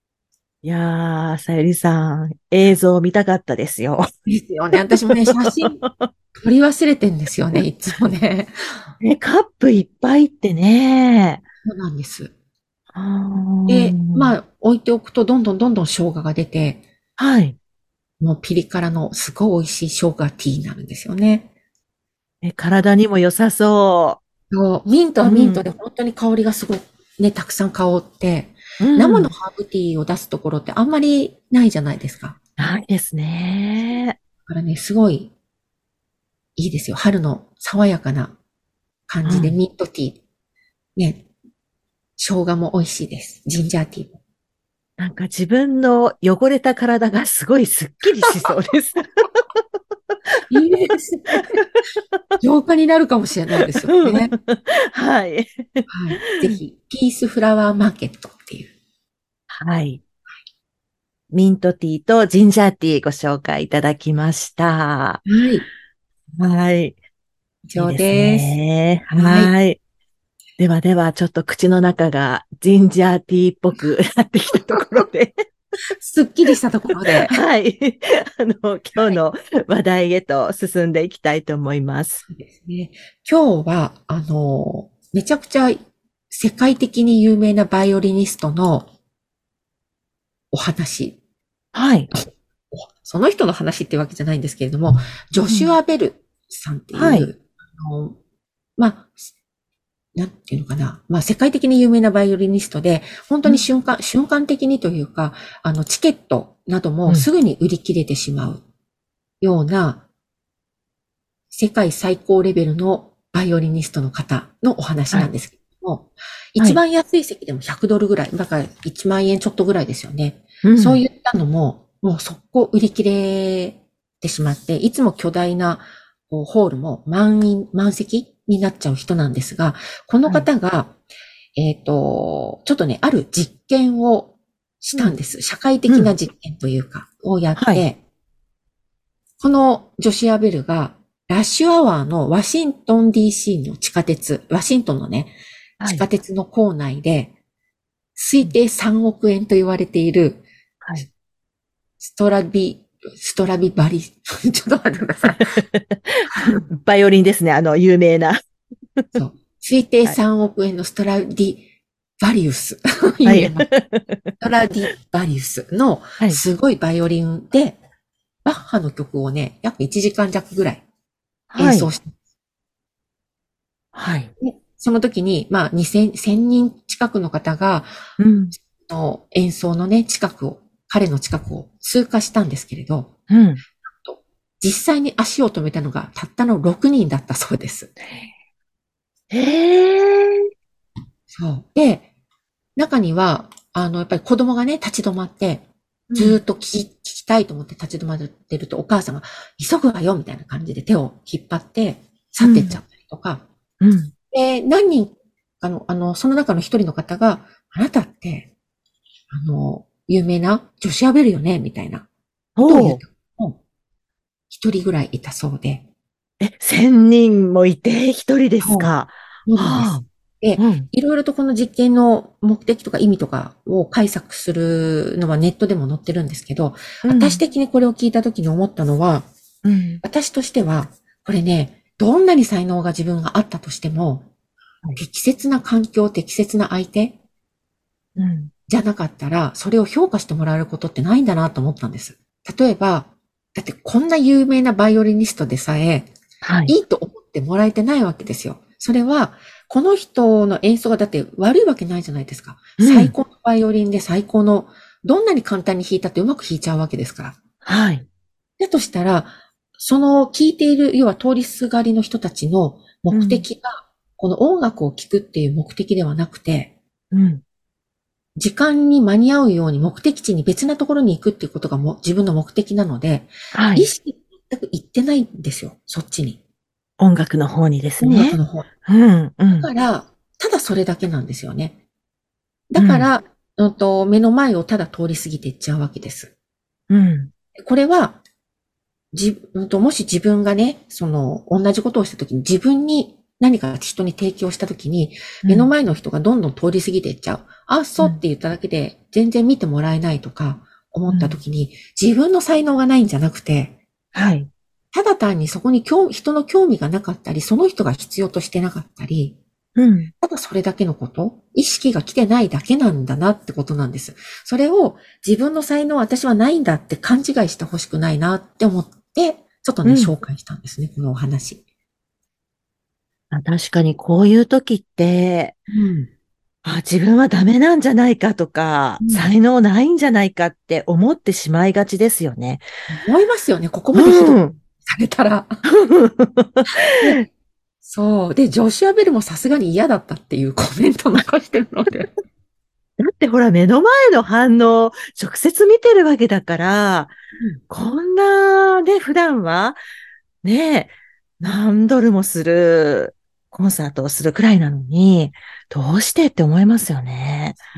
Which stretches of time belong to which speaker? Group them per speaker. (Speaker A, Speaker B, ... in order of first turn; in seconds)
Speaker A: 0.6-4.1, 5.8-6.1, 9.0-11.4, 12.9-14.3, 17.2-17.6, 22.4-24.2, 25.2-25.6, 28.8-29.3, 32.6-34.2, 39.2-39.6, 45.0-49.2, 51.3-51.8, 53.8-56.6, 59.5-60.0, 61.3-65.2, 66.4-67.0, 67.8-69.8, 70.6-75.3, 77.1-82.2, 91.7-92.1, 95.5-95.8, 96.9-97.3, 120.6-121.0, 135.9-136.1, 137.6-137.8, 145.8-146.1, 155.3-158.4, 163.2-164.3, 171.5-171.9, 173.9-174.3, 178.2-178.5, 183.3-183.6, 189.3-190.5, 196.1-196.4, 202.4-202.8, 203.8-204.1, 212.6-213.0, 216.4-220.1, 220.6-220.9, 227.0-227.4, 229.6-230.0, 238.2-238.5, 246.4-246.7, 252.8-253.1, 257.6-258.1, 263.1-263.4, 267.1-267.4, 273.5-273.9, 277.0-279.7, 282.8-283.1, 286.9-287.3, 295.4-295.7, 301.1-301.4, 304.1-304.5, 309.8-310.1, 319.8-320.1, 323.3-325.6, 326.6-332.6, 333.9-334.6, 335.6-337.2, 343.0-347.1, 347.7-349.8, 350.4-357.6
Speaker B: 4.2-5.8, 6.4-8.9, 11.6-12.3, 13.7-16.8, 18.2-21.5, 24.5-32.4, 34.5-35.3, 36.6-38.4, 39.1-40.2, 41.0-41.2, 42.2-44.2, 50.5-51.6, 52.4-54.3, 55.9-58.7, 65.2-65.7, 67.6-68.6, 69.1-69.5, 76.0-77.3, 82.3-88.9, 90.5-91.2, 92.1-98.2, 98.8-99.2, 100.1-108.6, 109.4-110.0, 111.5-130.9, 131.6-138.0, 139.4-147.3, 148.2-150.4, 152.0-155.6, 156.3-156.6, 159.1-161.6, 162.2-163.7, 164.4-167.8, 168.4-170.8, 171.6-172.1, 174.4-177.9, 178.7-183.1, 184.0-187.9, 191.3-192.1, 192.8-203.4, 204.3-208.5, 209.3-212.1, 212.7-213.6, 214.5-215.8, 218.6-218.9, 219.4-229.2, 230.0-234.3, 234.9-237.2, 238.7-246.1, 246.7-257.4, 258.6-266.7, 268.4-276.4, 278.0-278.7, 279.6-281.8, 282.7-286.3, 287.6-288.2, 289.1-303.8, 304.9-309.4, 310.2-321.6, 325.7-326.1, 329.0-329.3, 332.9-335.6, 337.0-337.2, 337.8-342.1